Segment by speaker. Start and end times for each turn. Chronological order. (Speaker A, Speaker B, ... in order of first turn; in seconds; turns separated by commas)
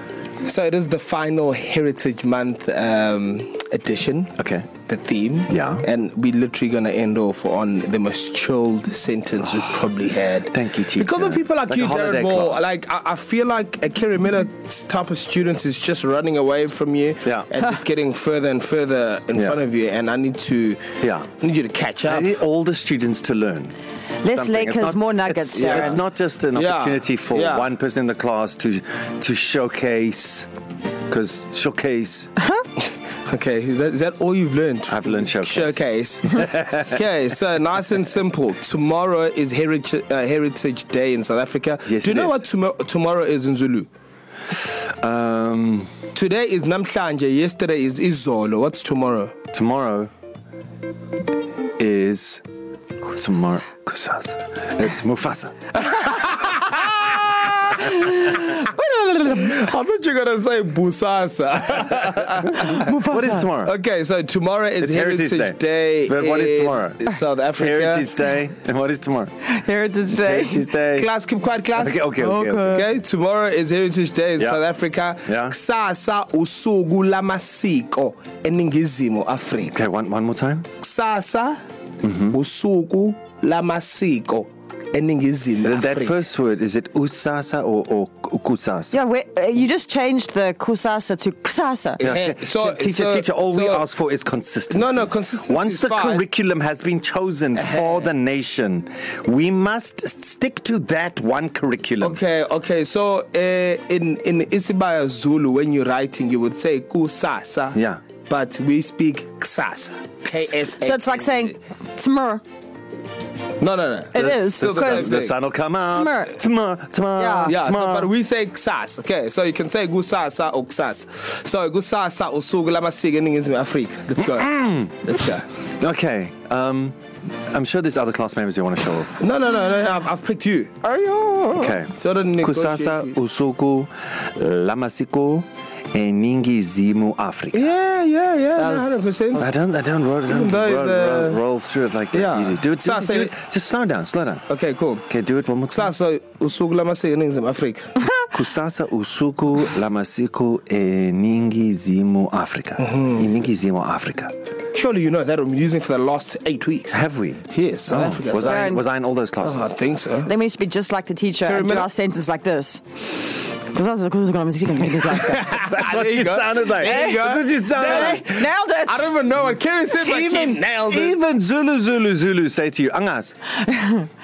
Speaker A: 0.4-4.3, Speaker B: 4.4-4.7, Speaker A: 4.8-22.3, Speaker B: 5.5-5.8, Speaker B: 10.5-12.7, Speaker B: 21.0-21.3, Speaker B: 22.0-23.7, Speaker C: 24.2-26.0, Speaker B: 24.2-30.5, Speaker A: 25.5-26.0, Speaker A: 26.5-27.7, Speaker B: 31.1-32.3, Speaker A: 33.2-43.9, Speaker B: 34.9-35.8, Speaker B: 41.8-42.4, Speaker B: 44.7-45.9, Speaker A: 46.1-49.3, Speaker B: 49.5-50.1, Speaker B: 51.8-52.4, Speaker B: 53.1-55.5, Speaker A: 57.7-58.6, Speaker C: 58.6-59.2, Speaker A: 59.2-62.9, Speaker B: 62.6-63.7, Speaker C: 62.9-63.4, Speaker A: 63.6-68.1, Speaker B: 64.8-67.0, Speaker B: 67.6-69.3, Speaker C: 69.5-70.6, Speaker B: 70.1-71.1, Speaker A: 70.9-72.1, Speaker B: 71.7-72.8, Speaker C: 72.2-72.8, Speaker A: 72.7-79.8, Speaker B: 75.2-75.5, Speaker B: 79.7-80.7, Speaker A: 80.8-81.6, Speaker B: 82.0-82.4, Speaker A: 82.3-86.2, Speaker B: 85.6-88.9, Speaker C: 88.9-92.0, Speaker B: 92.0-102.2, Speaker A: 92.0-93.8, Speaker A: 94.7-96.2, Speaker A: 97.6-98.0, Speaker A: 102.0-111.5, Speaker B: 107.7-108.0, Speaker C: 110.8-112.4, Speaker A: 113.6-115.3, Speaker C: 114.1-115.2, Speaker B: 114.1-118.1, Speaker C: 115.9-116.4, Speaker C: 117.2-117.6, Speaker A: 117.5-125.4, Speaker B: 124.2-125.1, Speaker B: 125.8-127.0, Speaker B: 127.5-129.2, Speaker A: 129.2-130.8, Speaker C: 130.8-131.7, Speaker B: 131.6-137.7, Speaker A: 132.0-133.1, Speaker A: 137.5-139.5, Speaker C: 138.6-139.4, Speaker B: 139.4-144.4, Speaker A: 140.3-141.4, Speaker A: 142.1-143.3, Speaker A: 144.5-145.1, Speaker B: 145.1-145.9, Speaker A: 145.7-147.9, Speaker B: 148.3-154.3, Speaker A: 152.8-153.2, Speaker A: 154.7-158.8, Speaker B: 156.9-159.7, Speaker C: 158.4-158.8, Speaker A: 159.4-160.3, Speaker C: 160.2-165.5, Speaker A: 161.4-161.9, Speaker A: 165.2-171.2, Speaker B: 165.5-168.3, Speaker C: 166.8-167.2, Speaker C: 167.7-169.1, Speaker B: 170.0-173.3, Speaker C: 173.7-174.1